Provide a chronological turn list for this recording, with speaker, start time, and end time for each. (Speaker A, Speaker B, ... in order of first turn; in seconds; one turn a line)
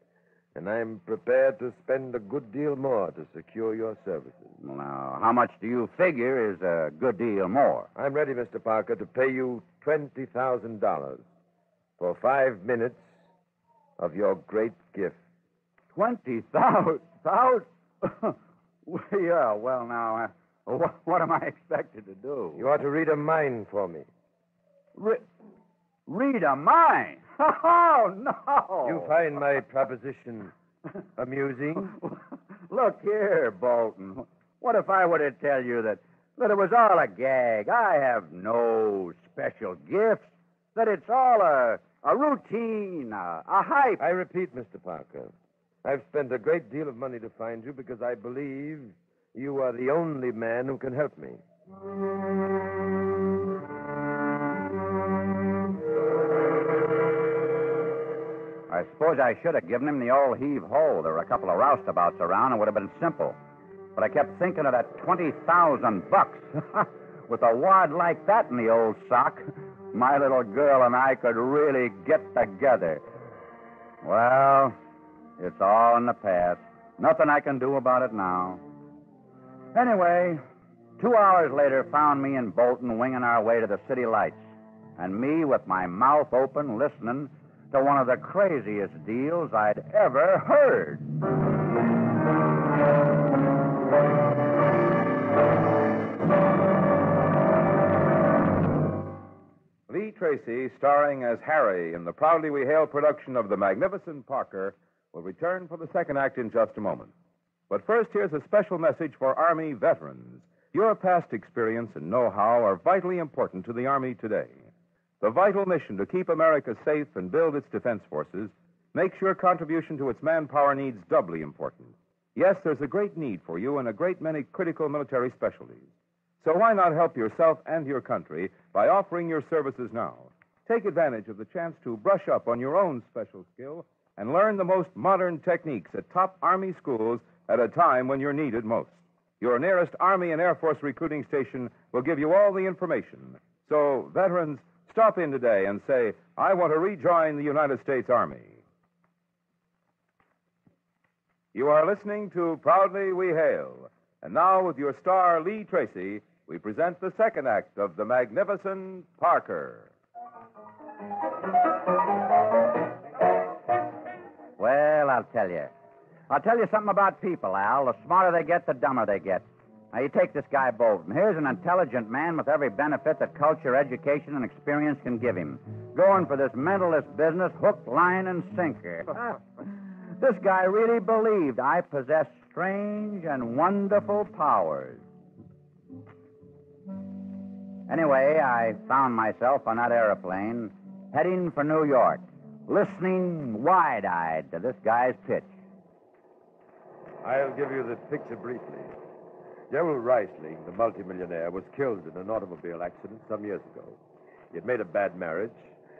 Speaker A: 0.5-4.5
Speaker B: 4.6-7.9
Speaker A: 7.9-11.2
Speaker A: 12.0-13.0
Speaker A: 14.0-15.2
Speaker B: 15.9-22.6
Speaker A: 22.6-24.1
Speaker B: 24.9-25.2
Speaker B: 26.1-29.2
Speaker A: 28.8-30.5
Speaker A: 31.1-31.9
Speaker B: 31.9-44.0
Speaker A: 44.0-45.3
Speaker A: 45.8-51.4
Speaker B: 58.7-63.4
Speaker B: 63.9-73.0
Speaker B: 74.0-74.8
Speaker B: 75.4-78.6
Speaker B: 79.7-80.4
Speaker B: 81.0-84.4
Speaker B: 85.0-91.1
Speaker C: 99.9-107.1
Speaker C: 107.7-114.6
Speaker C: 115.2-125.8
Speaker C: 126.4-148.6
Speaker C: 151.5-159.9
Speaker B: 164.6-165.7
Speaker B: 166.3-185.0
Speaker B: 187.9-195.5
Speaker A: 197.2-198.9
Speaker A: 199.7-204.0
Speaker A: 204.5-205.7